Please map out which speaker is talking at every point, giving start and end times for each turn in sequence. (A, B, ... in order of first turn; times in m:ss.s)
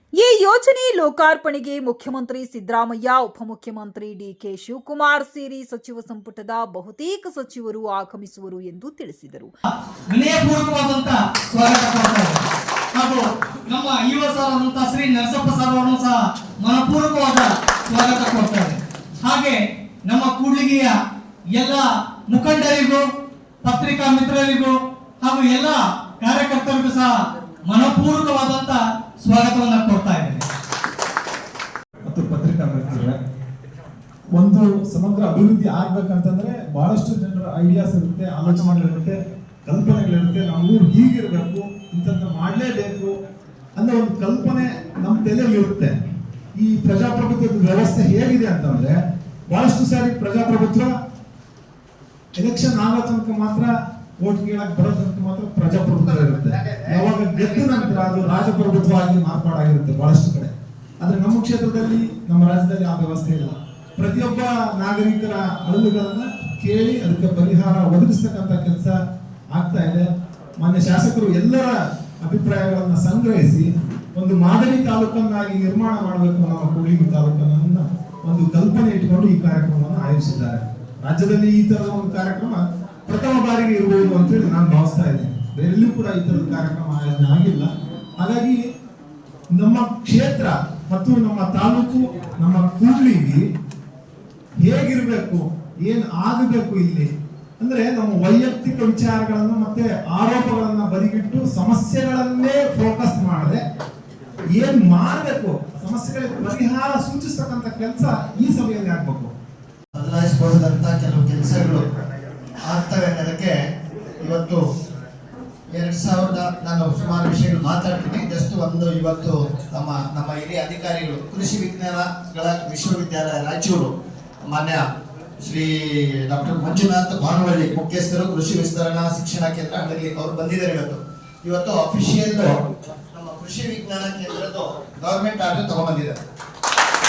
0:00.2-0:09.5 A
0:10.1-0:20.9 B
0:21.6-0:23.0 B
0:23.6-0:27.1 B
0:27.7-0:30.4 B
0:32.1-0:33.2 C
0:34.3-0:43.2 C
0:43.8-0:46.0 C
0:46.6-0:49.0 C
0:49.5-0:50.9 C
0:52.4-0:53.7 C
0:54.2-1:09.0 C
0:55.9-0:58.0 D
1:09.5-1:10.1 C
1:10.6-1:28.6 C
1:29.5-1:33.4 C
1:34.6-1:37.1 C
1:37.6-1:43.6 C
1:44.5-1:49.3 C
1:49.9-1:51.8 D
1:52.6-1:53.6 D
1:54.2-1:54.6 D
1:55.7-2:03.9 D
2:04.5-2:04.8 D
2:05.4-2:16.2 D